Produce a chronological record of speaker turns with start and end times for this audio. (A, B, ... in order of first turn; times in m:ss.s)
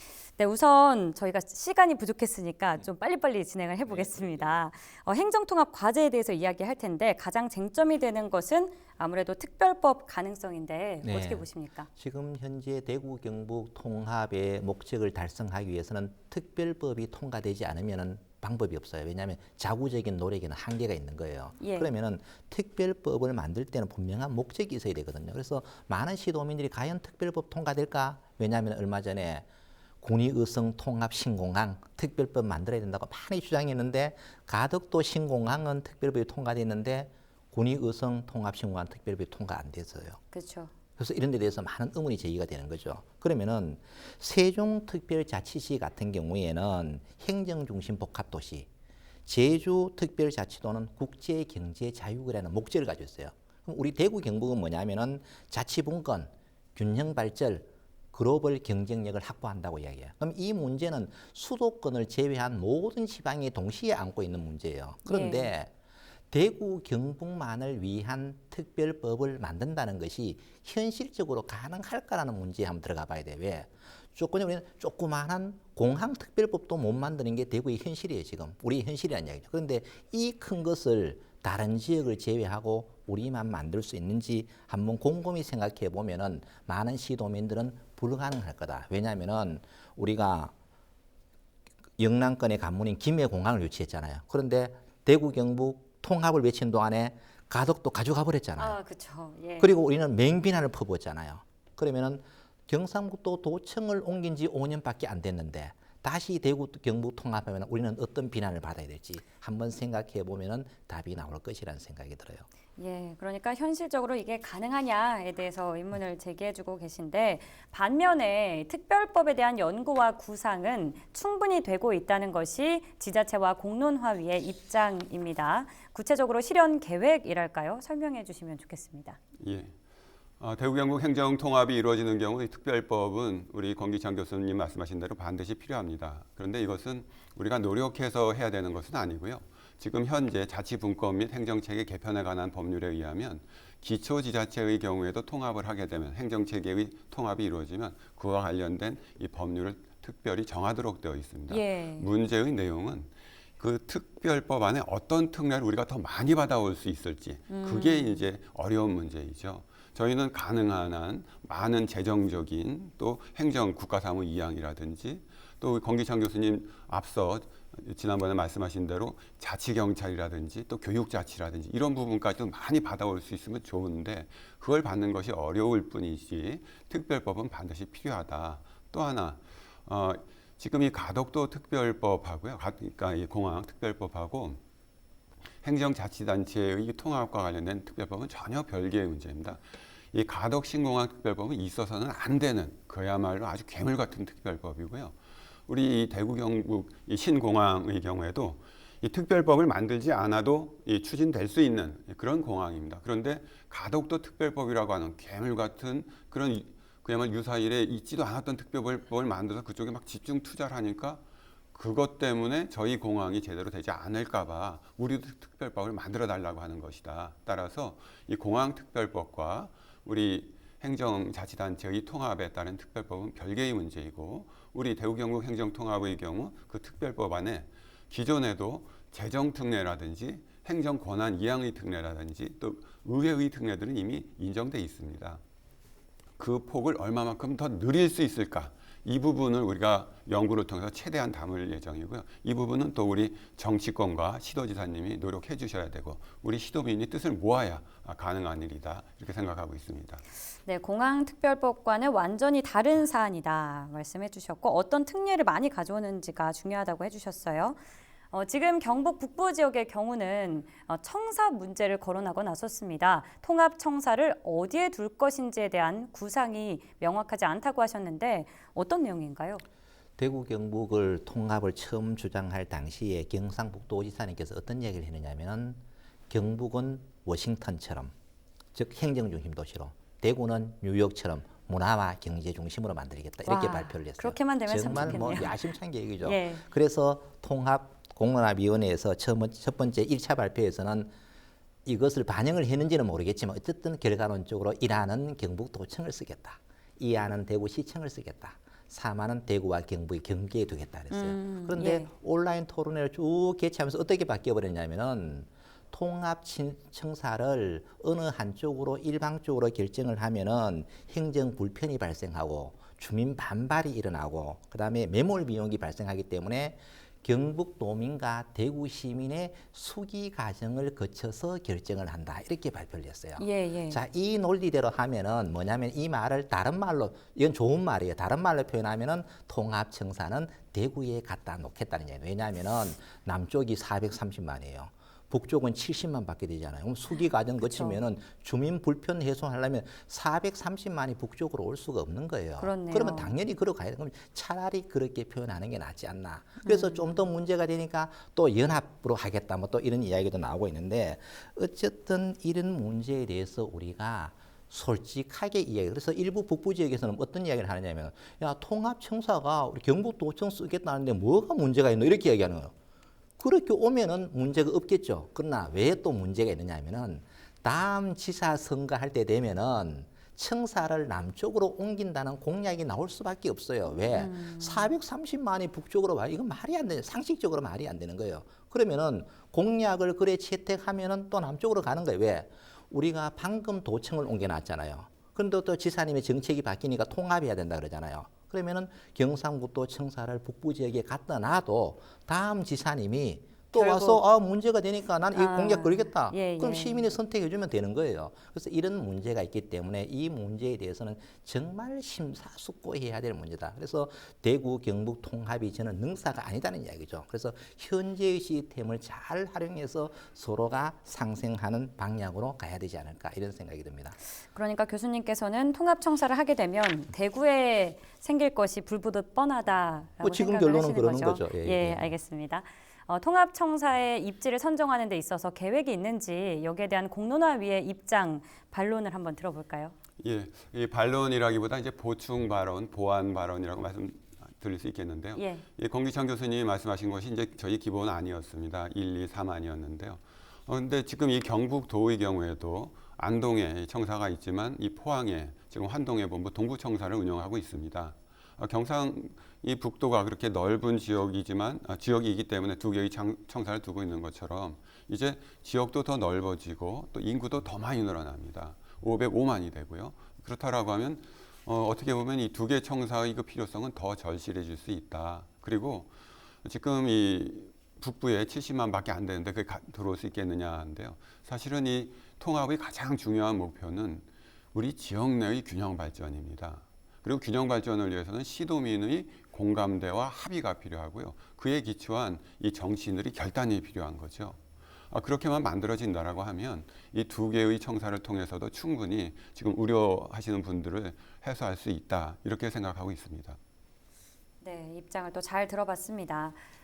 0:00.4-0:11.9 A
0:03.9-0:04.6 B
0:11.0-0:29.5 C
0:21.6-0:21.9 A
0:30.0-0:40.2 C
0:40.3-0:40.7 A
0:41.0-0:48.7 C
0:49.3-1:05.7 C
1:05.0-1:05.5 A
1:06.3-1:30.5 C
1:32.0-1:38.8 C
1:38.6-1:39.7 A
1:39.6-1:52.5 C
1:52.8-2:09.2 A
2:09.4-2:09.7 B
2:10.4-3:04.6 B
2:31.5-2:32.1 A
2:37.5-2:38.3 A
3:05.6-3:15.2 B
3:15.7-3:31.2 B
3:31.7-3:55.4 B
3:56.4-4:10.2 B
4:10.6-4:17.8 A
4:18.3-4:29.6 A
4:30.2-4:38.1 C
4:38.7-4:51.1 C
4:43.4-4:45.6 A
4:46.2-4:46.6 A
4:51.8-6:02.7 C
5:01.1-5:02.1 A
5:23.4-5:24.0 A
5:37.6-5:38.0 A
5:42.6-5:43.3 A
5:46.6-5:47.1 A
6:03.4-6:54.2 C
6:14.0-6:14.9 A
6:33.7-6:34.2 A
6:35.3-6:37.1 A
6:54.5-7:10.0 A
7:00.2-7:02.2 C
7:10.2-7:46.1 B
7:15.4-7:15.6 A
7:46.6-8:04.6 B
8:05.1-8:13.6 B
8:14.6-8:16.6 A